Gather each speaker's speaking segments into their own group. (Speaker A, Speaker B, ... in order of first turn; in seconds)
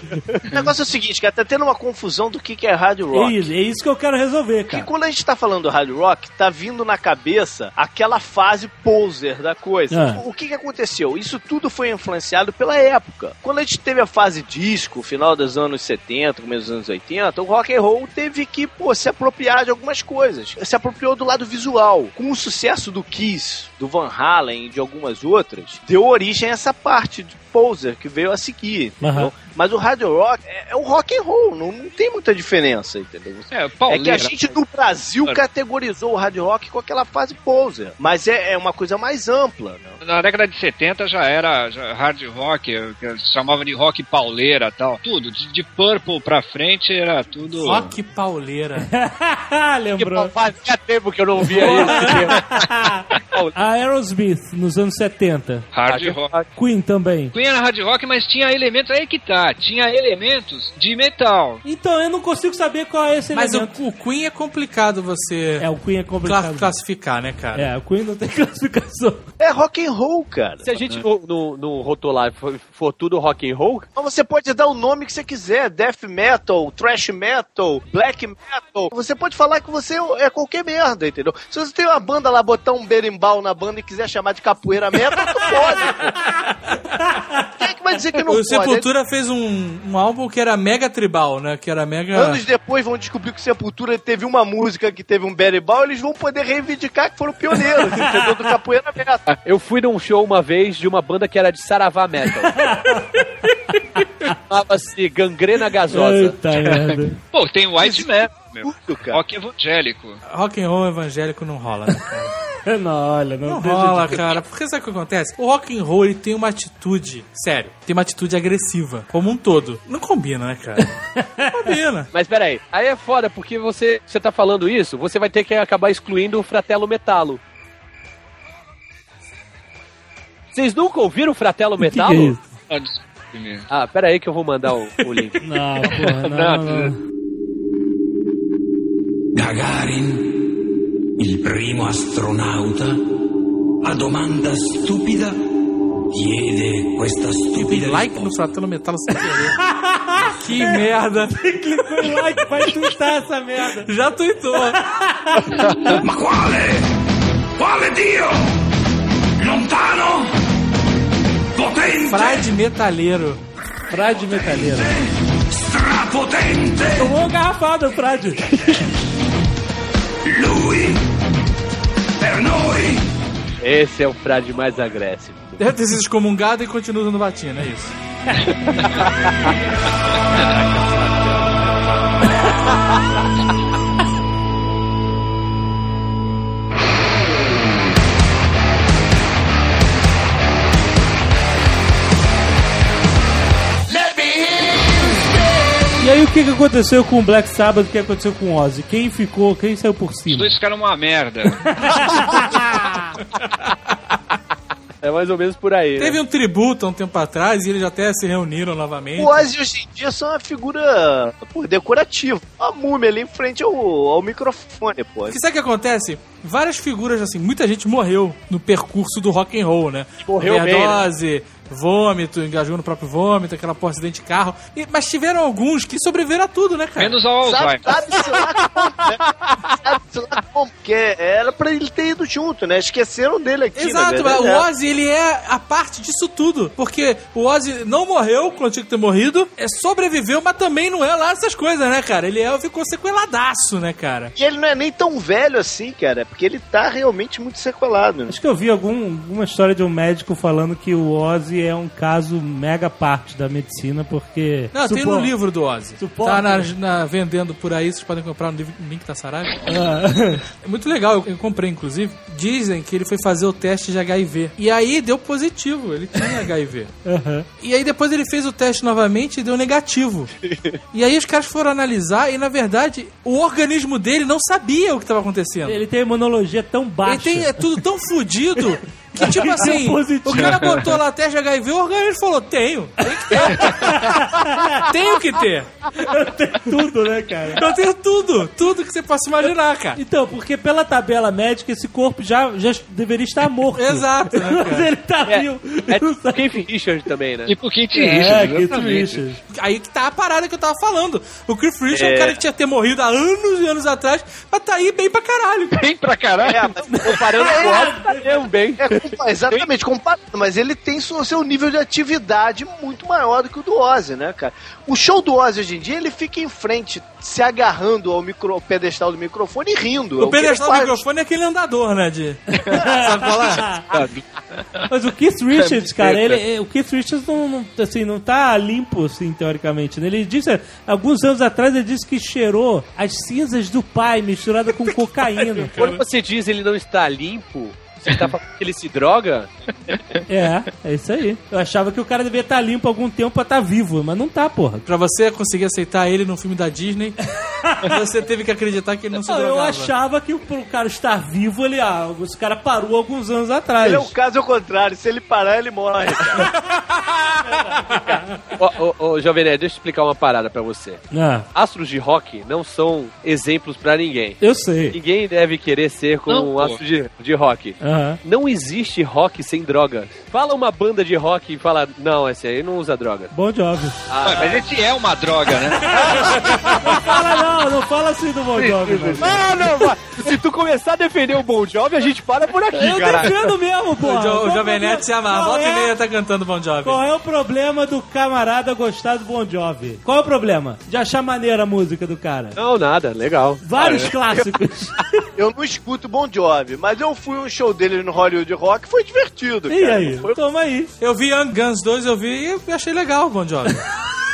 Speaker A: 0.5-3.5, 4.7-40.0, 69.4-70.7, 74.0-86.2, 87.6-88.8, 92.1-99.2, 107.8-109.2, 209.2-215.4, 227.4-234.7, 244.3-248.3, 306.4-307.8, 308.8-321.0, 353.8-356.5, 395.4-400.3
Speaker B: 3.1-4.9, 9.9-10.2, 29.0-29.3, 48.8-50.3, 51.4-53.0, 53.5-55.7, 56.5-57.3, 61.6-63.8, 65.6-66.8, 67.5-69.3, 98.0-98.3, 102.4-103.2, 105.9-107.2, 112.7-114.4, 121.2-121.8, 131.8-132.4, 135.4-137.0, 149.5-153.9, 154.5-155.9, 163.9-165.0, 167.0-168.8, 196.0-200.6, 201.6-203.1, 248.3-255.3, 256.0-256.7, 259.6-260.4, 267.0-267.5, 275.6-277.8, 278.6-280.8, 283.0-284.9, 285.9-287.8, 289.9-296.6, 297.9-299.4, 306.9-308.5, 322.6-323.9, 324.9-336.0, 340.3-344.8, 347.6-348.0, 349.1-354.1, 357.6-358.2, 361.1-361.5, 364.4-365.0, 367.8-368.2, 373.3-374.0, 375.7-379.6, 382.7-385.9, 386.8-392.6, 393.6-394.9, 399.7-400.9
Speaker C: 33.5-34.5, 40.0-47.9, 55.7-56.4, 57.3-61.6, 106.6-110.2, 132.7-133.7, 135.9-136.9, 200.3-202.4, 227.0-228.2, 280.4-280.6, 297.5-299.2, 305.7-306.9, 323.9-324.9, 325.5-326.4, 338.1-338.3, 339.9-340.2, 366.3-366.8, 374.2-376.8, 378.6-379.4, 393.8-394.1
Speaker D: 47.6-48.9, 63.3-65.7, 66.2-67.7, 88.2-92.4, 110.3-112.3, 113.5-120.9, 121.5-122.1, 147.5-149.6, 150.4-151.4, 153.7-154.8, 162.0-163.4, 175.6-177.9, 180.4-181.3, 206.0-209.4, 215.3-227.2, 233.8-244.3, 254.7-259.8, 260.5-266.9, 267.6-270.3, 270.9-275.8, 277.0-284.1, 284.9-285.7, 287.6-290.0, 293.7-294.9, 299.5-305.8, 320.2-323.7, 335.5-336.0, 344.9-347.2, 347.8-349.9, 384.0-387.0, 401.0-403.8
Speaker E: 50.0-52.4, 55.8-56.5, 70.6-73.8, 99.4-102.6, 104.5-106.4, 122.1-127.4, 130.5-132.4, 133.7-135.4, 173.6-175.6, 179.0-179.3, 205.0-206.2, 220.2-221.1, 229.5-229.8, 295.3-297.5, 301.9-302.3, 307.0-309.1, 335.7-339.5, 358.6-364.4, 364.9-373.3, 374.1-374.6, 379.1-383.5, 392.6-393.6
Speaker F: 139.3-140.4, 141.2-143.0, 143.8-145.4, 146.1-148.3, 155.9-156.9, 157.6-158.5, 159.4-160.3, 161.5-162.5, 164.3-167.1, 170.2-171.1, 172.2-173.1, 193.9-194.9